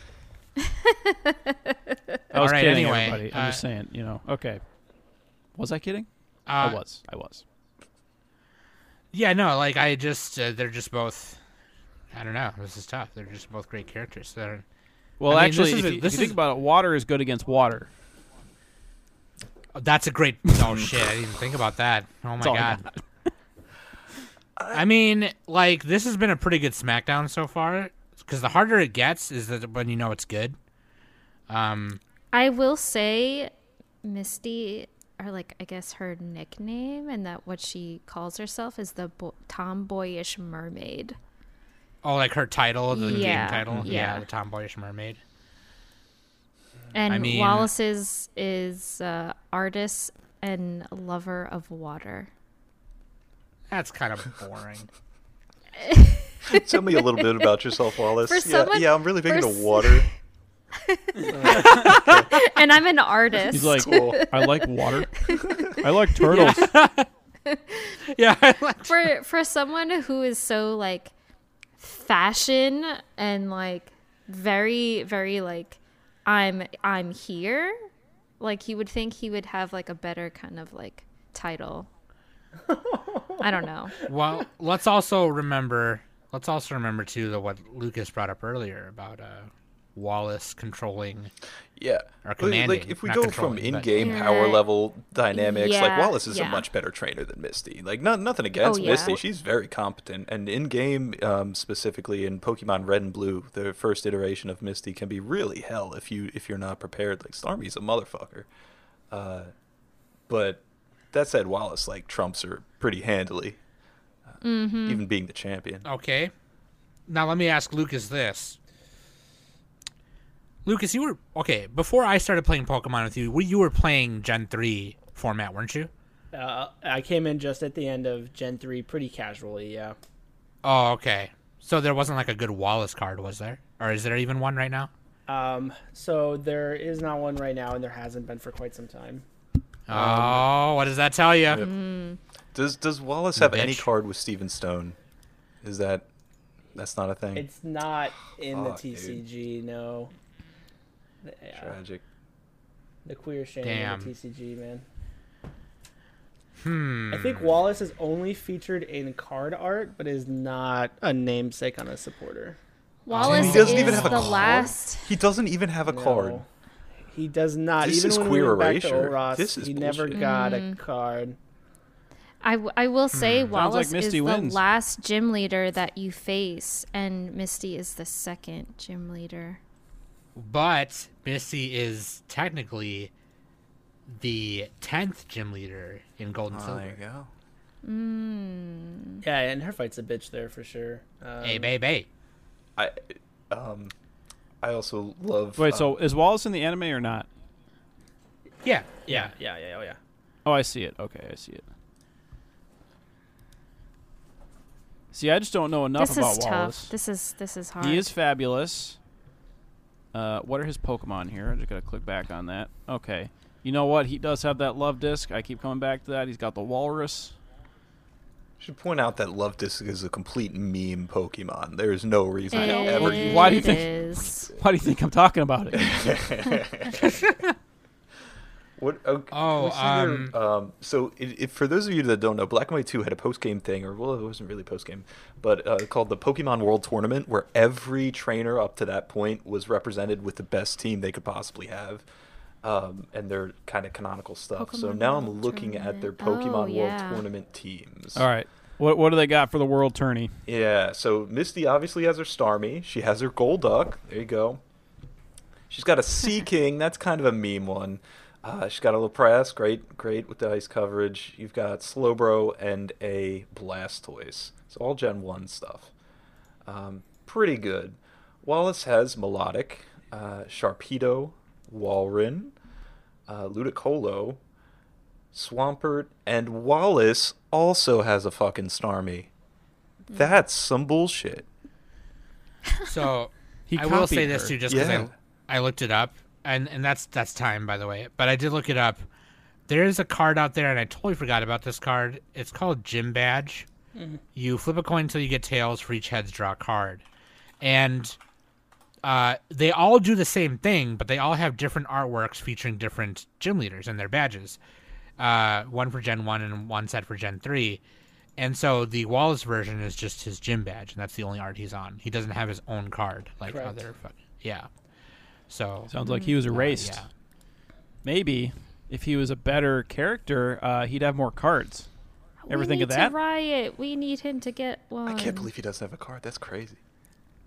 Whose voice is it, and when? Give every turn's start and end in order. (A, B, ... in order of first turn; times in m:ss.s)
0:00.6-0:02.2 A
0:02.3-0:04.6 B
0:02.4-0:03.6 C
0:05.5-0:07.4 B
0:06.5-0:06.8 C
0:09.1-0:11.4 C
0:12.1-0:14.6 C
0:15.2-0:17.9 B
0:15.3-0:16.4 C
0:19.7-0:22.8 C
0:22.4-0:23.0 B
0:24.6-0:24.8 D
0:24.7-0:30.6 C
0:31.5-0:32.0 C
0:32.3-0:33.5 A
0:34.0-0:41.2 A
0:42.0-0:45.2 C
0:42.9-0:44.2 A
0:43.0-0:43.9 D
0:46.9-0:52.3 A
0:47.1-0:47.7 C
0:53.7-0:54.9 C
0:55.8-0:57.3 A
0:56.5-1:00.1 D
0:58.2-1:00.1 A
1:00.8-1:06.5 A
1:01.5-1:02.2 C
1:03.5-1:06.7 B
1:03.8-1:04.2 D
1:06.2-1:07.1 C
1:07.4-1:08.0 A
1:08.1-1:09.1 C
1:08.9-1:11.1 A
1:11.8-1:17.8 A
1:18.4-1:21.9 A
1:22.7-1:23.4 E
1:23.4-1:24.0 A
1:24.1-1:31.3 C
1:31.8-1:48.5 D
1:32.2-1:34.0 C
1:34.0-1:34.6 A
1:35.3-1:36.7 A
1:38.6-1:39.2 A
1:49.1-1:49.5 D
1:50.3-1:53.6 D
1:54.3-1:55.9 D
1:54.4-1:55.0 A
1:55.8-1:56.3 C
1:57.1-1:58.6 C
2:00.6-2:05.9 C
2:06.3-2:10.0 E
2:10.6-2:14.9 C
2:15.3-2:19.2 E
2:19.9-2:21.6 C
2:19.9-2:20.4 D
2:21.5-2:21.8 D
2:21.6-2:22.2 A
2:22.5-2:25.0 D
2:23.3-2:23.9 C
2:25.6-2:26.0 D
2:26.7-2:27.5 D
2:27.3-2:30.1 E
2:28.5-2:29.2 D
2:31.2-2:31.7 E
2:31.5-2:32.0 D
2:33.0-2:34.8 E
2:33.6-2:34.1 C
2:36.6-2:37.5 C
2:37.1-2:42.6 E
2:43.0-2:45.1 A
2:43.1-2:44.5 C
2:43.2-2:46.4 D
2:45.8-2:46.4 E
2:47.1-2:51.4 E
2:47.8-2:50.3 D
2:50.1-2:50.8 A
2:52.4-2:59.6 A
2:53.1-2:53.6 C
2:53.5-2:54.6 B
3:00.3-3:03.1 C
3:04.1-3:07.0 C
3:06.5-3:07.3 D
3:07.8-3:09.2 A
3:09.2-3:11.7 E
3:11.4-3:12.1 C
3:12.8-3:13.9 D
3:14.6-3:16.0 D
3:15.6-3:17.3 B
3:18.6-3:19.3 C
3:19.1-3:20.0 E
3:20.4-3:21.6 B
3:25.1-3:26.9 B
3:25.9-3:28.1 A
3:27.8-3:29.0 B
3:30.1-3:37.4 B
3:38.6-3:43.8 D
3:42.5-3:44.5 A
3:42.5-3:46.2 B
3:45.7-3:47.2 D
3:46.9-3:47.5 C
3:48.8-4:02.0 D
3:49.3-3:50.3 C
4:02.6-4:08.3 D
4:04.6-4:07.2 A
4:08.1-4:10.4 B
4:10.4-4:14.6 D
4:15.7-4:25.9 D
4:26.6-4:32.5 D
4:33.3-4:34.4 D
4:35.3-4:39.3 D
4:40.1-4:41.5 D
4:42.8-4:49.0 C
4:43.7-4:44.6 B
4:44.7-4:45.1 D
4:49.7-4:53.7 C
4:54.4-4:57.0 C
4:57.6-4:58.2 C
4:59.0-5:04.6 C
5:05.2-5:07.8 C
5:08.4-5:14.7 C
5:13.5-5:13.8 E
5:15.5-5:15.9 C
5:15.9-5:17.0 B
5:16.0-5:16.4 A
5:16.5-5:17.1 C
5:18.0-5:21.9 B
5:22.5-5:25.5 A
5:22.5-5:23.1 B
5:25.0-5:26.8 D